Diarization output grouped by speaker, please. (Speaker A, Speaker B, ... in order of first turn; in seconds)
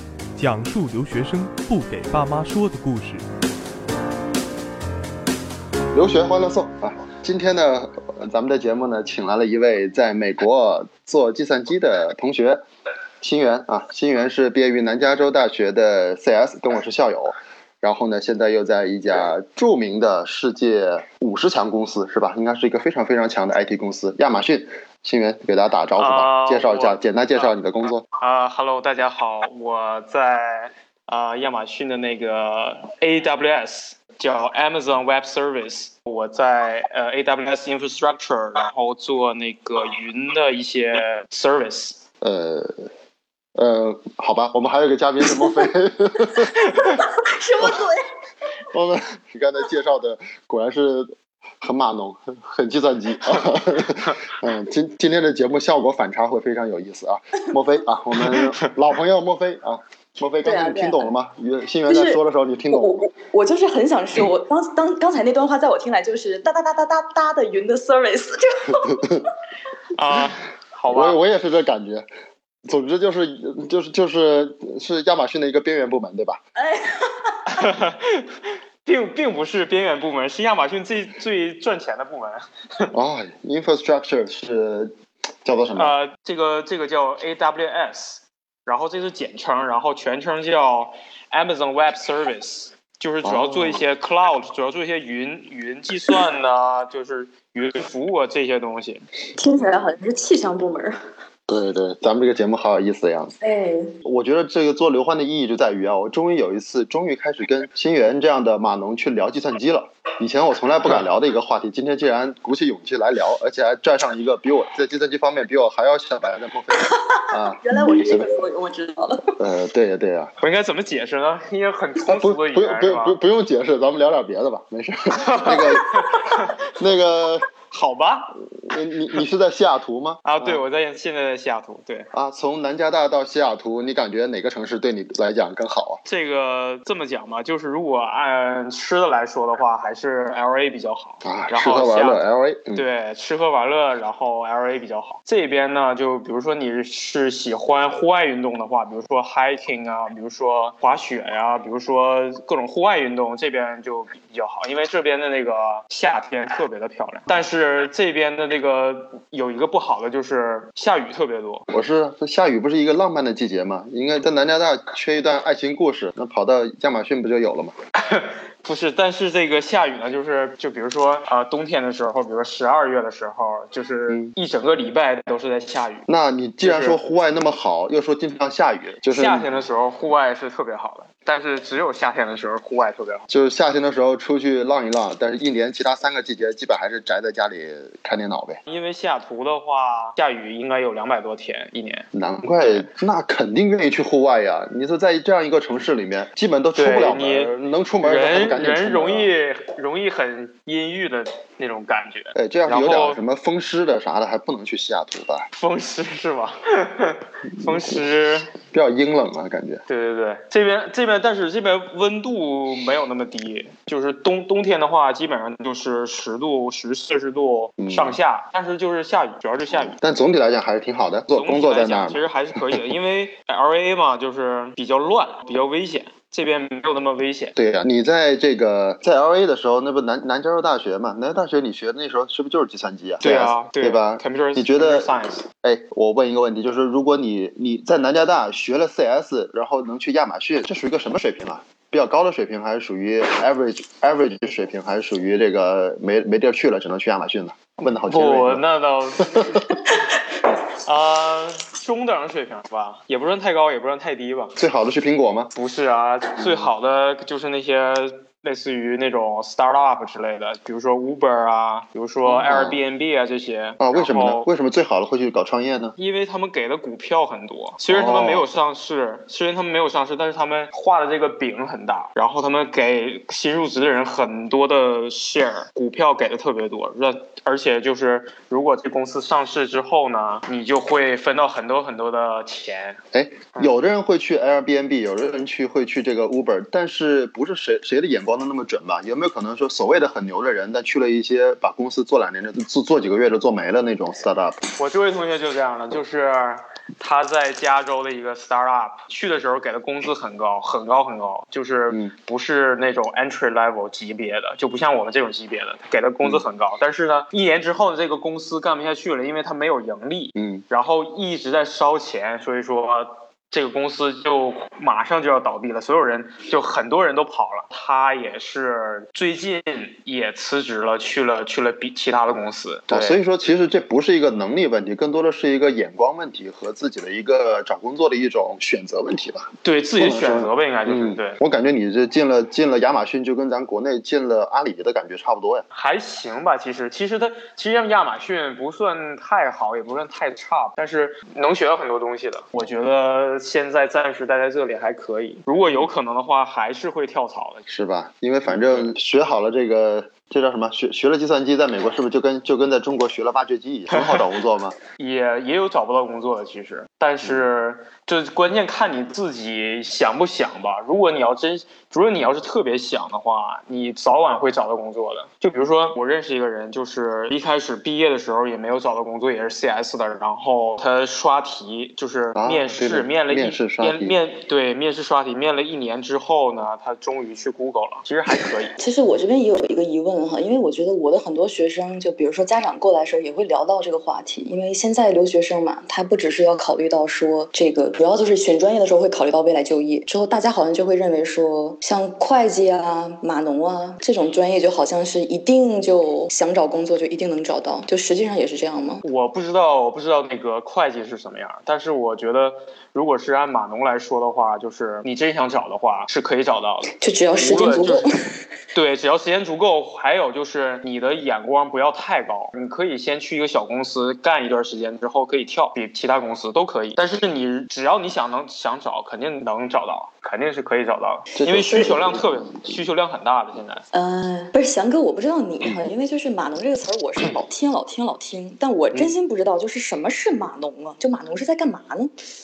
Speaker A: 0.4-3.2
Speaker B: 5.9-12.6, 13.2-28.1, 42.2-42.9, 43.6-46.5, 47.6-47.9, 48.7-63.0, 68.7-69.3, 70.9-72.1, 72.7-76.4, 82.9-86.0, 93.2-93.8, 101.5-103.4, 104.0-118.3, 119.4-120.3, 122.0-127.5, 128.6-130.6, 132.1-136.0, 141.2-142.8, 161.7-167.8, 176.1-179.5, 183.3-188.6, 192.1-199.3, 202.3-205.5, 207.6-208.0, 208.7-209.8, 217.8-218.2, 219.7-222.8, 227.6-248.6, 249.3-249.6, 254.6-255.5, 256.4-256.7, 262.2-262.8, 263.8-266.0, 267.9-268.5, 283.1-294.6, 310.4-310.6, 322.9-335.7, 347.7-354.8, 372.4-374.2, 421.4-422.8
Speaker C: 26.0-27.6, 28.1-42.0, 58.2-58.7, 69.9-71.2, 77.5-82.9, 85.8-99.0, 120.4-123.2, 125.2-126.6, 127.7-128.4, 130.2-132.1, 136.1-142.2, 142.8-161.7, 168.0-176.1, 176.6-177.0, 179.1-183.3, 188.7-192.1, 196.8-203.2, 205.5-208.5, 209.9-220.0, 221.3-227.6, 233.2-235.5, 248.1-249.8, 250.8-254.6, 255.5-264.5, 266.0-283.0, 294.8-323.2, 329.6-331.4, 335.7-347.6, 348.5-348.9, 353.9-354.2, 355.0-378.8, 399.0-408.1, 408.7-423.8
Speaker D: 46.6-48.1, 60.4-61.1, 61.9-62.2, 62.7-69.2, 76.6-77.4, 99.4-101.0, 103.4-104.0, 116.8-119.3, 378.8-399.0, 407.0-408.1, 423.9-432.1